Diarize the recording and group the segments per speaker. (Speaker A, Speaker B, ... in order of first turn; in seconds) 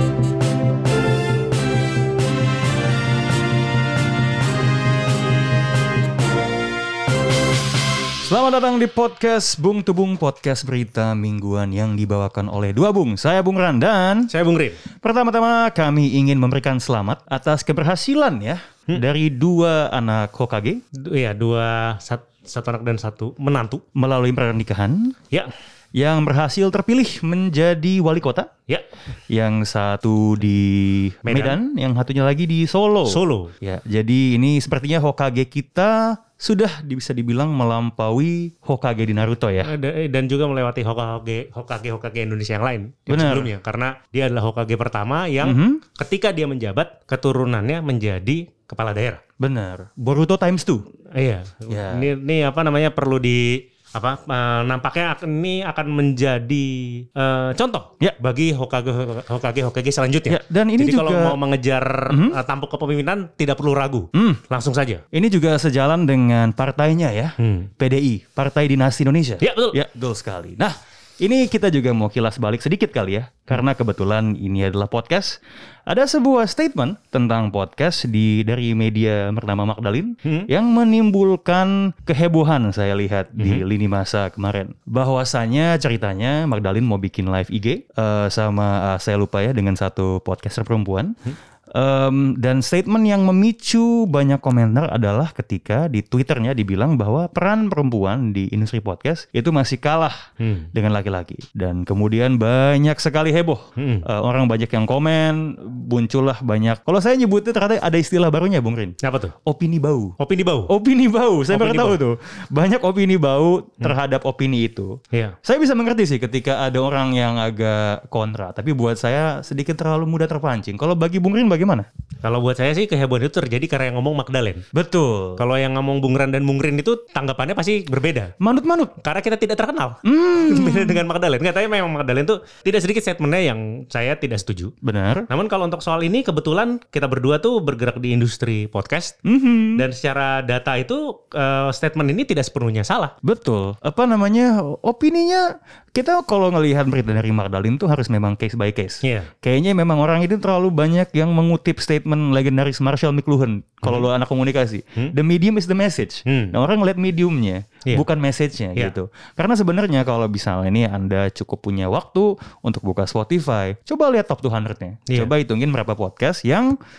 Speaker A: 8.2-14.3, 15.0-20.8, 24.0-25.2, 26.0-28.5, 29.3-39.7, 43.1-43.5, 45.4-45.8, 49.4-50.9, 51.7-52.1, 60.3-61.4, 62.1-62.4, 64.1-64.4, 65.1-91.2, 91.7-100.2, 100.7-110.2, 110.7-121.9, 124.7-125.4, 128.4-128.9, 130.0-131.0, 134.8-135.3, 139.2-139.8, 143.2-166.8
Speaker B: 14.3-14.8, 21.0-23.8, 31.2-31.6, 33.0-33.5, 39.6-49.2, 51.1-65.0, 67.4-67.7, 69.4-69.8, 80.2-80.5, 83.4-83.6, 100.4-100.7, 103.8-104.1, 109.0-109.3, 110.2-110.7, 111.5-112.0, 122.2-124.6, 125.4-128.3, 129.0-134.7, 135.3-139.2, 139.8-143.1, 149.0-149.3, 156.3-156.6